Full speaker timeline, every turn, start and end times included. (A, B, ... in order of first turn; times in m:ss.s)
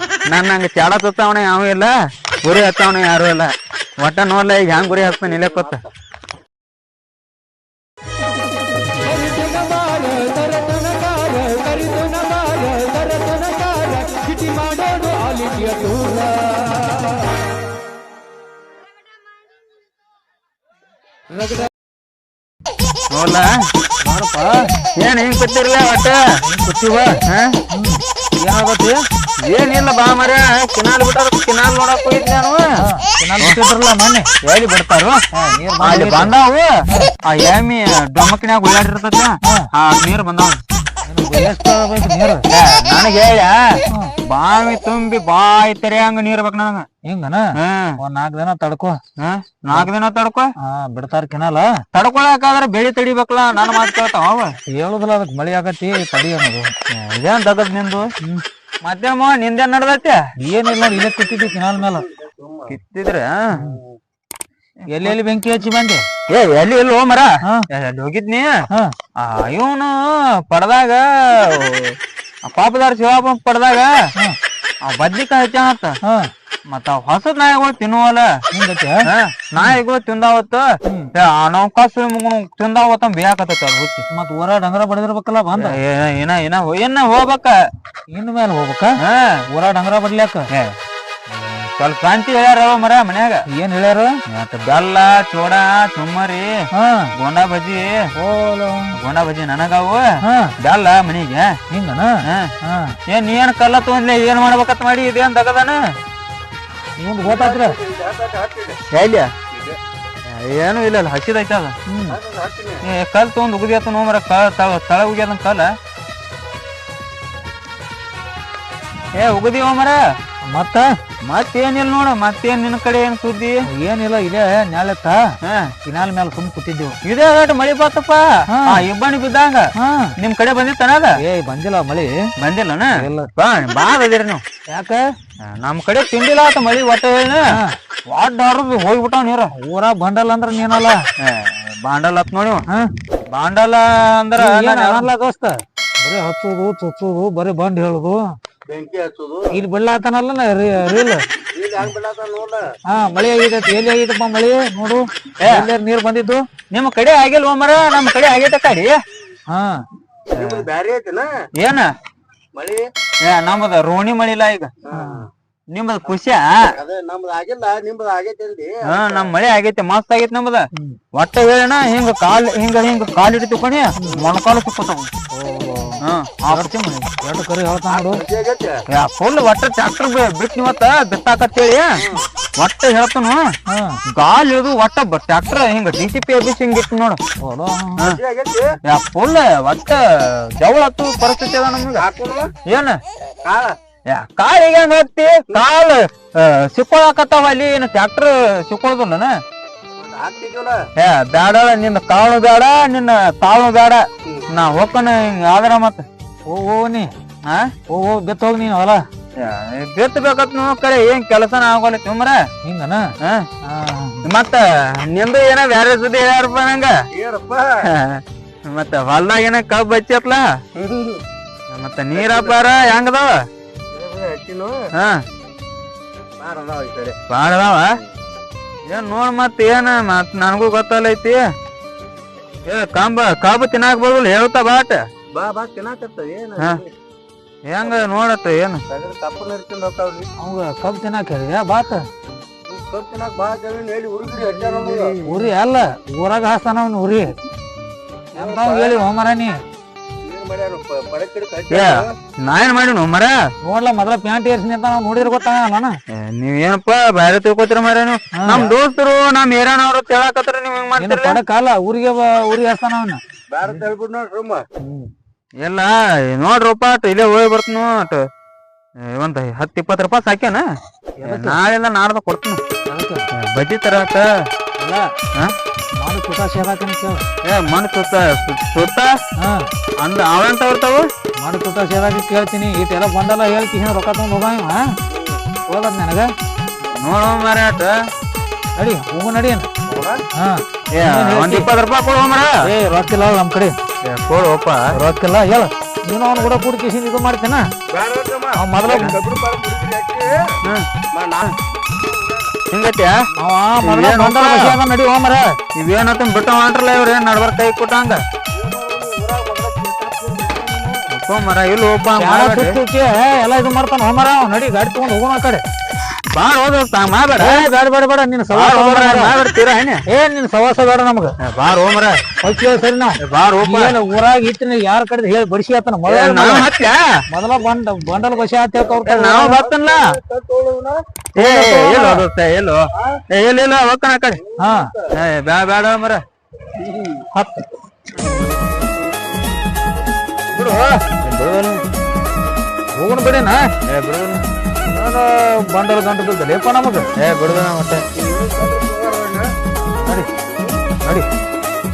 0:00.3-0:05.8 A
0:05.1-0:05.8 B
0:09.0-0:17.1 C
0:23.1-0:23.5 A
0:24.0-0:24.7 C
0:25.0-0:26.2 A
0:26.4-0:27.2 C
0:27.3-0:27.6 A
0:27.7-0:29.0 C
0:29.5-0:32.6 A
0:32.8-0:34.3 C
0:34.4-0:35.2 A
0:35.3-0:36.4 C
0:35.8-0:40.6 A
0:41.0-0:42.5 C
0:42.5-0:46.9 A
0:47.0-0:49.0 C
0:47.6-0:48.0 A
0:49.2-0:50.5 A
0:50.6-0:51.7 C
0:51.9-0:54.6 A
0:54.7-0:56.7 C
0:56.9-0:58.1 A
0:58.8-1:00.2 A
1:00.4-1:02.1 C
1:01.1-1:02.7 B
1:02.7-1:03.6 A
1:03.6-1:04.0 B
1:04.9-1:06.0 C
1:06.3-1:08.6 A
1:09.2-1:13.9 A
1:14.8-1:16.0 A
1:16.7-1:18.3 A
1:18.5-1:19.0 C
1:19.1-1:24.0 A
1:20.9-1:21.1 C
1:24.1-1:25.8 C
1:25.6-1:27.6 A
1:28.1-1:28.9 C
1:29.0-1:29.4 A
1:29.5-1:30.5 C
1:31.3-1:33.4 A
1:33.5-1:34.1 C
1:34.3-1:36.6 A
1:36.8-1:37.1 C
1:37.2-1:38.1 A
1:38.2-1:39.0 C
1:39.0-1:40.1 A
1:40.2-1:40.5 C
1:40.6-1:41.6 A
1:41.7-1:43.0 C
1:43.1-1:45.8 A
1:47.0-1:47.8 C
1:47.2-1:48.8 B
1:48.9-1:49.3 A
1:49.5-1:49.8 B
1:50.3-1:51.7 A
1:51.9-1:52.2 C
1:52.1-1:52.8 B
1:52.8-1:55.7 A
1:59.1-2:00.0 A
2:00.5-2:00.9 C
2:01.2-2:03.6 A
2:03.7-2:05.2 C
2:05.4-2:05.7 A
2:05.9-2:07.0 C
2:07.0-2:09.7 A
2:08.5-2:08.8 C
2:09.8-2:10.1 C
2:10.2-2:11.2 A
2:11.2-2:12.1 C
2:12.4-2:14.4 A
2:13.0-2:13.3 C
2:14.7-2:15.0 C
2:15.4-2:17.5 A
2:18.1-2:19.5 A
2:19.6-2:21.0 C
2:21.2-2:22.6 A
2:23.3-2:25.1 A
2:24.4-2:28.2 C
2:28.7-2:29.6 B
2:29.5-2:31.2 C
2:31.5-2:32.7 B
2:32.9-2:36.4 C
2:35.4-2:35.7 A
2:36.7-2:39.0 A
2:39.5-2:39.8 C
2:40.3-2:40.6 A
2:40.4-2:41.3 B
2:41.6-2:41.9 A
2:42.6-2:42.9 B
2:43.2-2:44.7 A
2:44.8-2:45.3 B
2:44.9-2:45.3 C
2:45.7-2:46.7 A
2:46.7-2:49.3 B
2:48.8-2:55.1 A
2:55.3-2:58.2 C
2:56.0-2:56.7 A
2:57.9-2:58.8 B
2:58.9-3:01.9 A
3:02.0-3:02.3 B
3:02.6-3:03.4 A
3:03.7-3:04.0 C
3:04.2-3:07.2 A
3:07.4-3:08.0 C
3:08.1-3:08.7 B
3:08.9-3:12.1 A
3:12.0-3:12.5 B
3:12.7-3:13.0 A
3:13.4-3:13.7 B
3:14.1-3:19.4 A
3:20.0-3:20.8 B
3:21.0-3:26.1 A
3:26.5-3:27.1 C
3:27.4-3:27.7 A
3:27.9-3:29.0 C
3:29.4-3:32.4 A
3:32.6-3:33.1 C
3:33.2-3:33.5 A
3:33.6-3:34.2 C
3:34.2-3:36.9 A
3:37.1-3:37.8 B
3:37.8-3:40.4 A
3:40.8-3:41.2 B
3:41.7-3:43.4 A
3:42.1-3:42.6 B
3:43.9-3:44.9 B
3:46.4-3:47.2 B
3:47.3-3:48.0 A
3:48.9-3:51.4 A
3:52.7-3:55.0 A
3:55.3-3:56.9 B
3:57.7-3:58.8 A
3:57.8-3:58.1 B
3:58.9-4:00.3 B
4:00.4-4:02.0 C
4:02.7-4:05.2 B
4:05.2-4:07.4 C
4:08.3-4:09.0 B
4:08.4-4:09.6 C
4:10.2-4:12.1 B
4:11.7-4:13.4 A
4:13.6-4:16.0 C
4:16.1-4:21.4 A
4:18.4-4:18.7 C
4:21.0-4:23.2 C
4:23.5-4:24.6 B
4:24.8-4:25.1 C
4:25.6-4:28.2 A
4:29.1-4:30.6 A
4:31.2-4:31.6 C
4:31.2-4:32.6 A
4:32.9-4:33.3 C
4:33.3-4:34.3 A
4:34.8-4:35.1 C
4:36.0-4:37.2 C
4:37.4-4:39.1 A
4:39.4-4:39.7 C
4:40.0-4:41.1 A
4:41.4-4:44.9 C
4:45.1-4:45.4 B
4:45.7-4:46.3 C
4:46.8-4:48.0 A
4:48.8-4:49.7 C
4:49.9-4:50.2 B
4:50.4-4:51.7 C
4:50.9-4:52.6 A
4:52.6-4:53.8 C
4:54.0-4:55.0 A
4:54.9-4:57.7 C
4:57.9-5:00.6 B
4:58.6-4:59.2 C
5:01.1-5:02.6 B
5:02.7-5:03.2 A
5:03.4-5:05.6 C
5:03.8-5:04.8 A
5:05.8-5:08.2 A
5:08.5-5:11.0 B
5:11.1-5:12.8 A
5:12.2-5:15.6 C
5:16.3-5:17.7 A
5:17.4-5:19.4 C
5:18.5-5:20.0 A
5:20.1-5:21.3 C
5:21.4-5:22.2 A
5:22.4-5:26.7 C
5:23.2-5:24.0 A
5:26.1-5:27.1 A
5:27.3-5:29.6 C
5:29.0-5:30.1 A
5:29.6-5:31.0 B
5:31.4-5:34.4 A
5:31.4-5:32.2 C
5:34.5-5:35.1 B
5:34.6-5:34.9 C
5:35.2-5:36.2 A
5:36.7-5:37.3 B
5:37.3-5:37.7 C
5:38.2-5:39.6 B
5:40.6-5:41.0 C
5:41.1-5:41.8 A
5:43.0-5:43.7 C
5:43.8-5:44.4 A
5:44.9-5:47.1 C
5:47.2-5:48.1 A
5:48.2-5:49.5 B
5:50.0-5:50.3 C